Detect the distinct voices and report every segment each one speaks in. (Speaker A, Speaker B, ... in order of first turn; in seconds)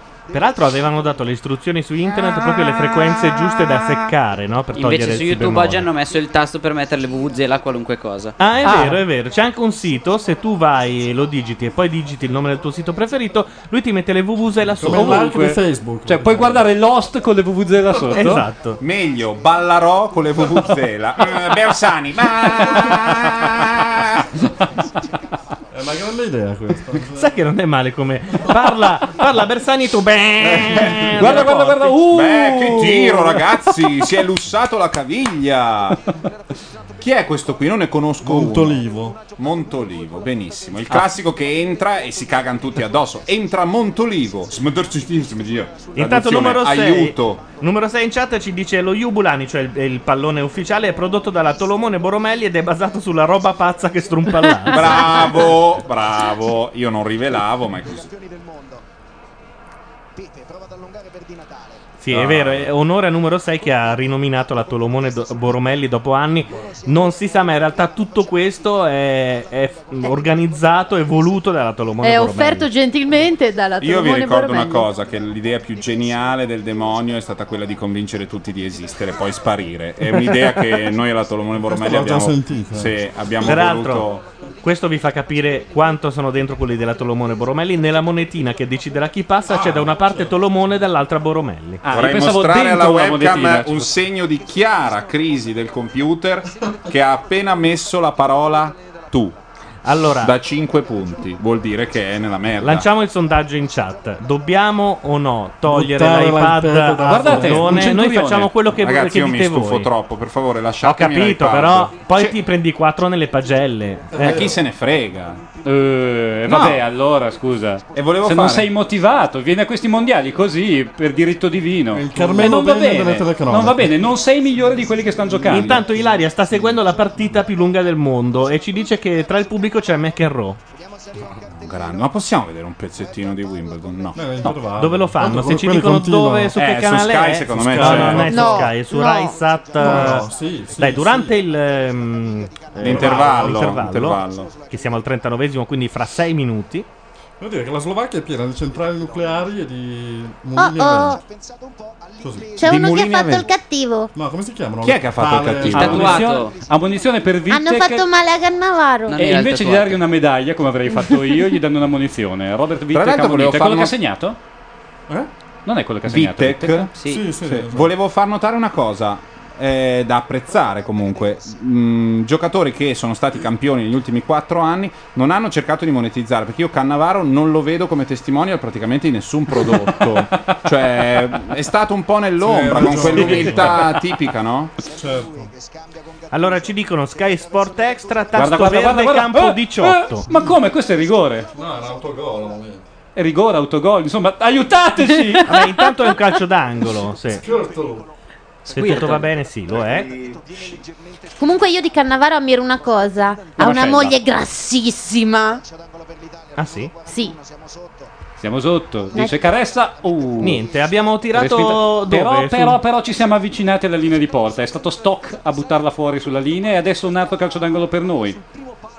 Speaker A: 0.3-5.9, 8.4-15.6, 18.1-18.8, 27.1-32.0, 45.9-55.2, 62.0-72.7, 83.4-84.1, 84.6-91.8, 99.8-100.3, 102.6-109.9, 110.8-114.4, 125.5-130.6, 134.8-146.9, 186.3-190.2, 195.4-197.4, 198.7-200.1, 206.6-206.9, 210.4-212.8
Speaker B: 4.8-8.3, 155.8-156.6, 159.1-160.0, 167.0-167.3
Speaker C: 8.6-9.0, 16.1-18.4, 30.9-33.5, 91.8-93.9, 107.1-108.5, 115.6-125.8, 155.7-158.0, 159.2-164.4, 165.6-166.9, 188.3-191.5, 193.1-195.6, 198.7-199.3, 203.6-204.1, 208.4-210.6, 211.3-218.4
Speaker D: 14.8-16.7, 25.7-27.3, 38.2-39.2, 81.6-83.0, 89.5-90.3, 105.7-107.9, 114.1-114.6, 121.9-124.0, 134.1-136.6, 137.4-138.7, 139.8-141.4, 142.8-143.6, 147.4-151.2, 152.2-152.6, 154.1-156.2, 167.0-167.9, 182.4-184.0, 184.9-185.5, 191.5-192.9, 197.4-198.1
Speaker E: 18.8-24.4, 30.4-31.4, 32.1-36.0, 37.0-38.8, 39.3-47.4, 54.7-58.1, 62.1-62.7, 73.8-84.2, 91.9-99.3, 100.2-102.9, 108.8-112.3, 114.2-115.4, 116.5-116.8, 117.9-118.7, 131.5-134.2, 136.5-138.4, 142.8-144.5, 152.6-153.5, 154.8-156.2, 162.9-163.9, 166.1-184.7
Speaker F: 72.0-74.9, 138.3-139.4, 150.6-151.2, 152.6-154.1, 157.5-159.2, 201.4-205.6, 207.1-207.4